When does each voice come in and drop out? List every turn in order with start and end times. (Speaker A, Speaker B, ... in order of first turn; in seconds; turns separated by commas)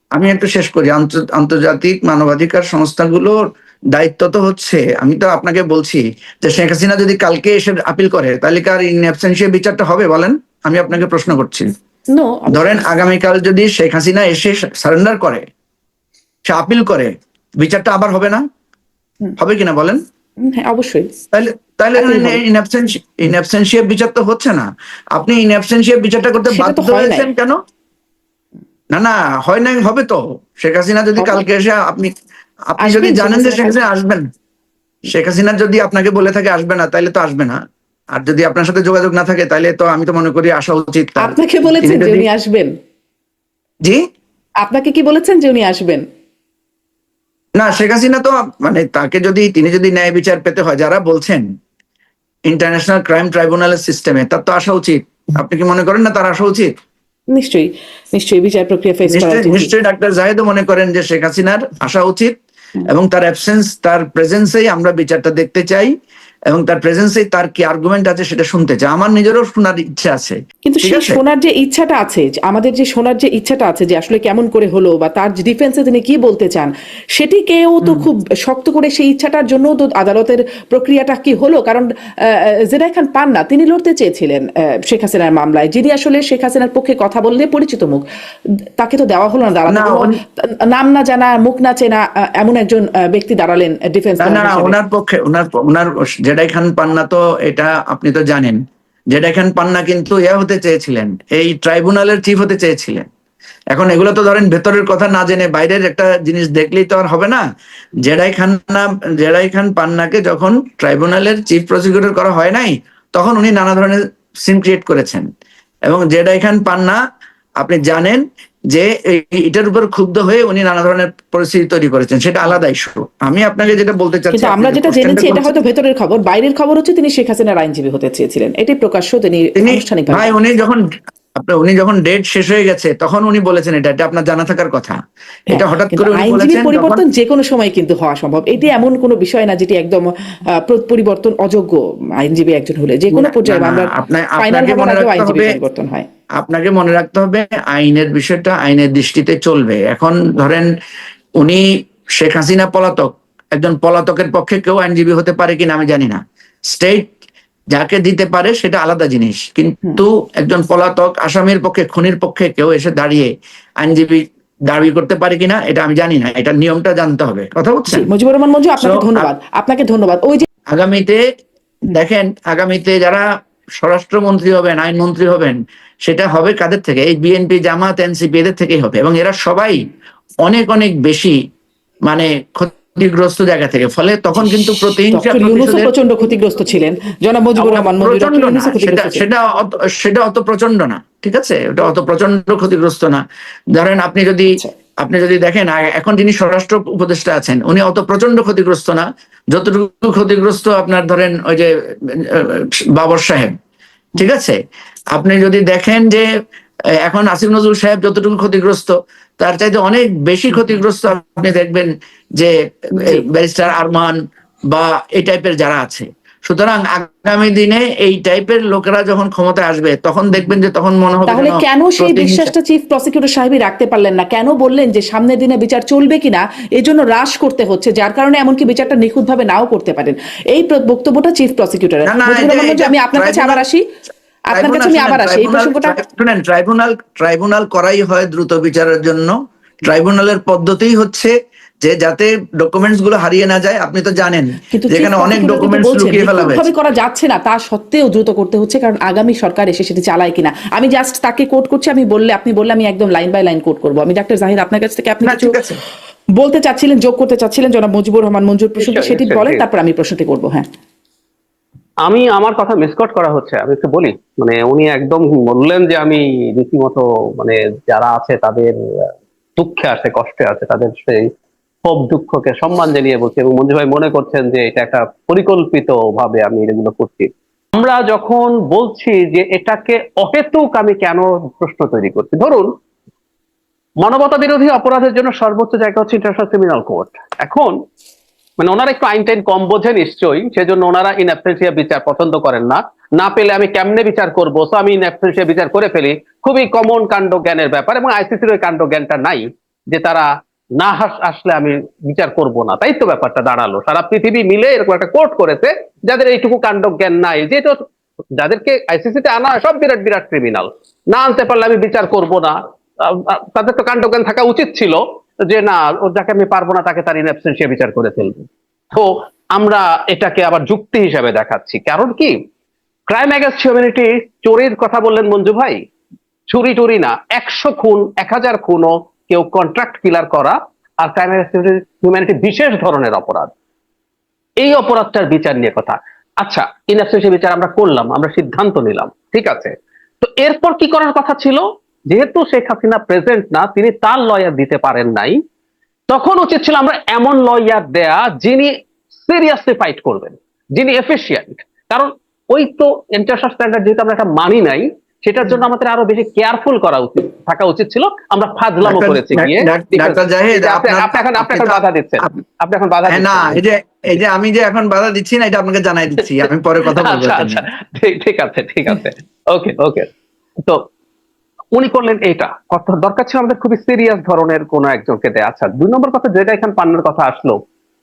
Speaker A: 0.2-3.4, Speaker A: 3.9-11.7, Speaker B: 12.1-12.8, Speaker A: 12.5-15.4, Speaker A: 16.5-18.4, Speaker A: 19.4-20.0, Speaker B: 20.4-21.1, Speaker A: 21.3-27.6, Speaker B: 22.0-22.4, Speaker B: 26.5-27.3, Speaker A: 28.9-32.1, Speaker B: 31.2-31.4, Speaker A: 32.7-34.3, Speaker B: 32.8-33.8, Speaker A: 35.1-37.6, Speaker A: 38.1-42.3, Speaker B: 41.2-42.7, Speaker B: 44.6-46.0, Speaker A: 47.6-51.4, Speaker A: 52.5-56.7, Speaker B: 57.3-59.7, Speaker A: 59.1-62.4, Speaker A: 62.9-65.9, Speaker A: 66.5-71.2, Speaker B: 70.7-88.0, Speaker B: 88.8-94.8, Speaker A: 89.7-90.1, Speaker A: 94.2-98.6, Speaker A: 99.1-103.1, Speaker A: 103.7-107.4, Speaker A: 108.0-115.3, Speaker A: 115.9-117.0, Speaker A: 117.6-125.5, Speaker B: 124.3-130.4, Speaker A: 129.6-130.8, Speaker A: 131.4-135.0, Speaker B: 135.5-140.1, Speaker A: 135.5-137.0, Speaker B: 140.6-146.1, Speaker A: 143.1-145.5, Speaker A: 146.4-150.7, Speaker A: 151.4-157.1, Speaker A: 157.7-168.1, Speaker B: 167.9-170.5, Speaker A: 168.8-169.3, Speaker A: 170.7-171.2, Speaker A: 171.9-173.2, Speaker A: 173.8-179.8, Speaker A: 180.4-181.4, Speaker A: 182.1-185.9, Speaker B: 185.1-189.2, Speaker A: 187.6-193.2, Speaker A: 193.8-203.6, Speaker A: 204.2-204.6, Speaker A: 205.1-206.3, Speaker A: 207.1-214.2, Speaker A: 214.7-222.5, Speaker B: 221.3-233.8, Speaker A: 232.1-233.6, Speaker B: 234.5-236.0, Speaker A: 234.5-246.7, Speaker B: 244.7-255.5, Speaker A: 255.2-255.8, Speaker B: 256.4-260.7, Speaker C: 258.8-259.6, Speaker C: 262.1-268.7, Speaker C: 269.6-271.3, Speaker C: 271.9-282.7, Speaker C: 284.0-287.7, Speaker C: 288.6-307.8, Speaker C: 308.4-322.3, Speaker C: 323.1-325.8, Speaker C: 326.5-333.5, Speaker C: 334.6-345.4, Speaker C: 346.1-363.6, Speaker A: 358.8-362.4, Speaker A: 363.1-367.6, Speaker C: 366.9-370.1, Speaker C: 371.8-377.6